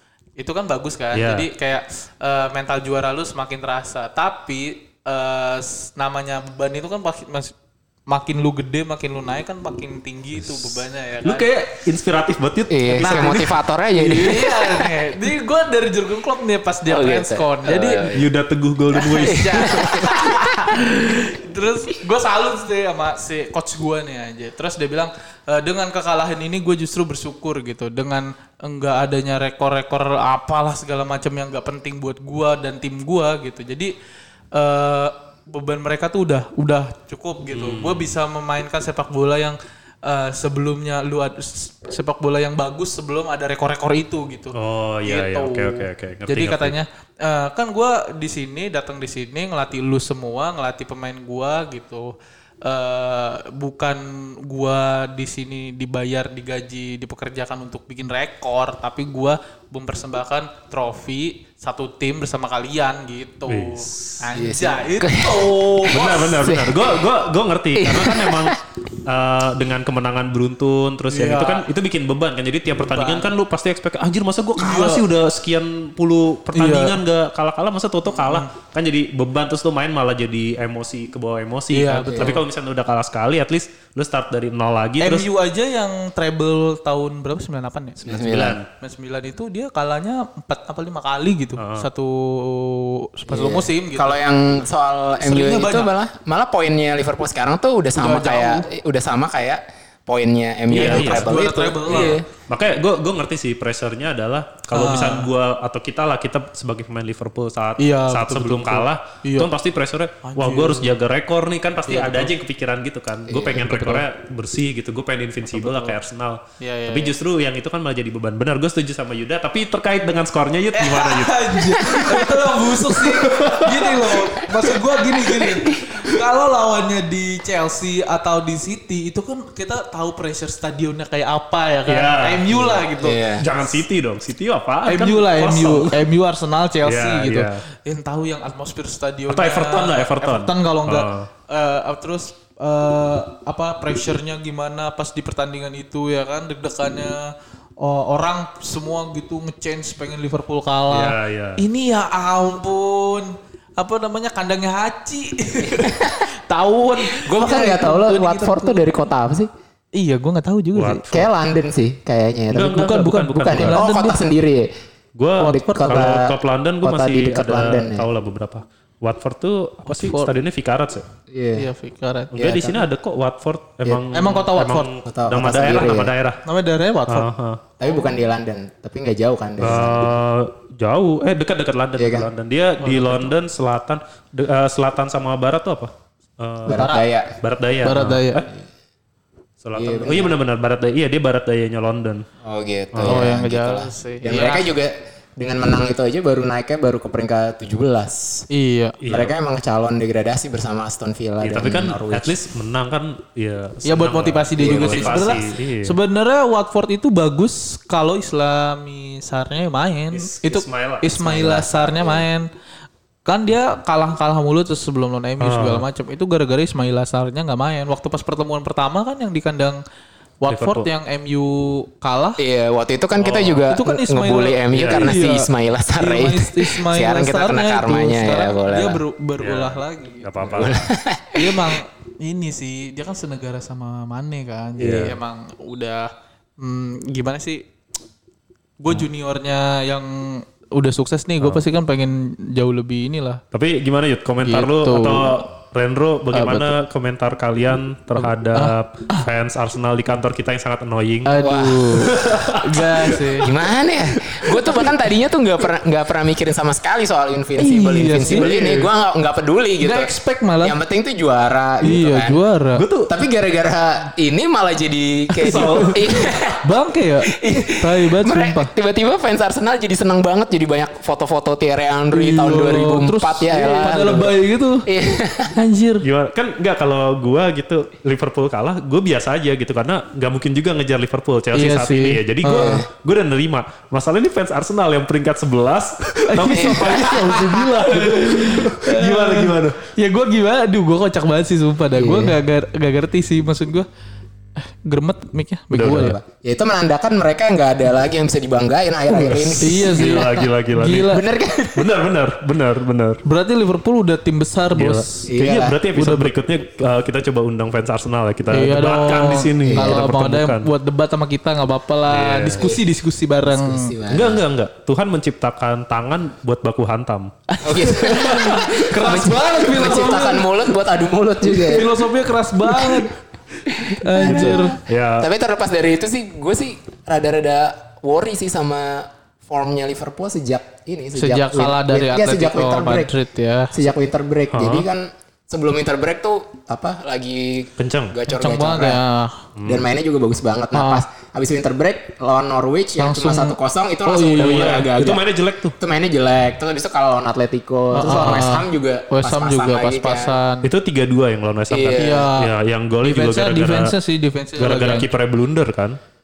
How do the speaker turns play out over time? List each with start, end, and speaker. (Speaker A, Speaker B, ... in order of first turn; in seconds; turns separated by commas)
Speaker A: 0.4-7.5, Speaker B: 1.1-1.5, Speaker A: 8.1-11.5, Speaker B: 11.2-13.5, Speaker C: 12.7-14.9, Speaker A: 13.0-13.4, Speaker A: 13.9-18.0, Speaker C: 16.9-18.3, Speaker B: 18.1-20.1, Speaker C: 19.0-20.6, Speaker A: 19.0-33.9, Speaker A: 34.5-52.1, Speaker B: 37.5-38.1, Speaker B: 44.5-46.7, Speaker A: 52.6-66.5, Speaker B: 63.5-64.2, Speaker C: 64.3-65.7, Speaker B: 65.9-85.3, Speaker C: 66.3-66.9, Speaker C: 67.7-68.6, Speaker A: 71.1-71.7, Speaker A: 72.8-73.3, Speaker A: 74.6-75.0, Speaker A: 76.5-77.0, Speaker A: 78.1-78.5, Speaker A: 81.7-82.4, Speaker C: 82.1-82.4, Speaker A: 85.0-88.0, Speaker C: 88.0-88.6, Speaker B: 88.1-88.7, Speaker A: 88.8-94.2, Speaker B: 91.6-91.8, Speaker C: 93.3-102.2, Speaker A: 95.2-95.9, Speaker A: 97.9-98.7, Speaker B: 100.7-101.3, Speaker A: 100.7-102.2, Speaker B: 101.9-124.5, Speaker A: 104.7-105.3, Speaker A: 107.8-109.5, Speaker A: 110.2-110.9, Speaker A: 111.9-112.3, Speaker C: 113.3-113.6, Speaker A: 113.5-114.0, Speaker A: 115.5-116.0, Speaker A: 116.6-117.1, Speaker A: 120.7-133.2, Speaker B: 131.8-136.0, Speaker C: 133.0-133.5, Speaker A: 134.8-158.9, Speaker B: 136.8-137.6, Speaker B: 139.3-141.3, Speaker B: 150.9-151.6, Speaker C: 155.7-156.2, Speaker C: 157.1-159.5, Speaker A: 159.9-161.1, Speaker B: 160.7-161.3, Speaker C: 161.1-164.7, Speaker B: 162.5-163.8, Speaker A: 162.7-164.2, Speaker B: 165.2-171.1, Speaker A: 165.4-166.1, Speaker C: 165.4-168.1, Speaker A: 169.8-170.3, Speaker C: 171.3-171.7, Speaker A: 171.5-172.3, Speaker B: 172.3-176.4, Speaker C: 172.3-172.8, Speaker A: 174.1-174.9, Speaker C: 175.0-176.1, Speaker A: 176.4-177.3, Speaker B: 177.1-177.6, Speaker C: 177.8-180.2, Speaker B: 179.6-188.4, Speaker C: 182.0-182.3, Speaker A: 182.8-183.3, Speaker C: 186.7-187.4, Speaker A: 186.7-187.0, Speaker A: 187.8-188.4, Speaker B: 189.6-192.2, Speaker C: 189.7-190.3, Speaker C: 192.4-198.5, Speaker B: 192.9-193.3, Speaker A: 193.1-194.7, Speaker A: 198.5-199.0, Speaker B: 199.0-199.3, Speaker C: 199.1-202.3, Speaker B: 201.4-205.9, Speaker A: 203.8-212.5, Speaker C: 204.6-205.4, Speaker B: 210.1-211.9, Speaker C: 211.8-212.2, Speaker A: 213.2-219.8, Speaker B: 215.4-215.8, Speaker A: 220.4-222.4, Speaker B: 220.5-220.9, Speaker C: 222.4-229.0, Speaker B: 223.2-223.6, Speaker A: 223.7-230.6, Speaker B: 224.7-225.2, Speaker B: 229.4-230.9, Speaker C: 230.5-231.7, Speaker A: 231.3-237.6, Speaker B: 234.8-235.2, Speaker A: 238.8-243.4, Speaker B: 243.5-251.3, Speaker A: 244.4-245.3, Speaker A: 246.3-246.7, Speaker A: 248.2-249.2, Speaker A: 251.2-253.5, Speaker C: 251.4-252.3, Speaker B: 251.9-253.2, Speaker C: 253.4-260.1, Speaker A: 257.6-258.5, Speaker B: 258.2-258.9, Speaker A: 259.8-260.8, Speaker C: 260.6-262.4, Speaker A: 261.8-262.8, Speaker B: 262.8-263.1, Speaker C: 263.1-266.6, Speaker B: 265.4-266.3, Speaker A: 265.5-265.9, Speaker A: 266.6-268.7, Speaker C: 267.4-275.6, Speaker A: 272.1-274.9, Speaker A: 275.5-276.0, Speaker B: 276.0-289.8, Speaker A: 281.5-282.8, Speaker C: 282.5-282.9, Speaker A: 286.2-293.9, Speaker C: 286.6-287.2, Speaker C: 291.9-292.4, Speaker A: 294.6-296.2, Speaker B: 295.7-296.2, Speaker C: 296.0-300.3, Speaker B: 299.2-301.2, Speaker A: 299.6-301.2, Speaker C: 301.0-301.9, Speaker B: 301.7-303.2, Speaker A: 303.2-305.1, Speaker B: 304.8-310.7, Speaker C: 305.2-305.8, Speaker A: 305.9-306.3, Speaker A: 308.5-313.9, Speaker C: 309.6-310.0, Speaker B: 312.1-312.7, Speaker C: 312.5-312.8, Speaker C: 313.5-314.4, Speaker B: 314.1-317.3, Speaker A: 317.5-320.5, Speaker C: 317.6-321.9, Speaker A: 321.4-323.1, Speaker C: 322.7-323.1, Speaker C: 323.7-333.1, Speaker A: 323.8-324.8, Speaker B: 324.2-325.3, Speaker A: 331.1-333.7, Speaker C: 333.7-339.0, Speaker B: 334.5-334.8, Speaker B: 337.8-338.1, Speaker A: 338.3-339.4, Speaker B: 339.6-339.9, Speaker C: 339.6-345.2, Speaker A: 340.7-341.0, Speaker A: 343.0-344.9, Speaker B: 344.4-345.7, Speaker C: 345.8-350.4, Speaker A: 347.9-350.7, Speaker B: 348.0-348.4, Speaker B: 350.6-353.9, Speaker C: 351.7-352.2, Speaker A: 352.0-352.5, Speaker A: 353.0-355.1, Speaker B: 354.6-356.0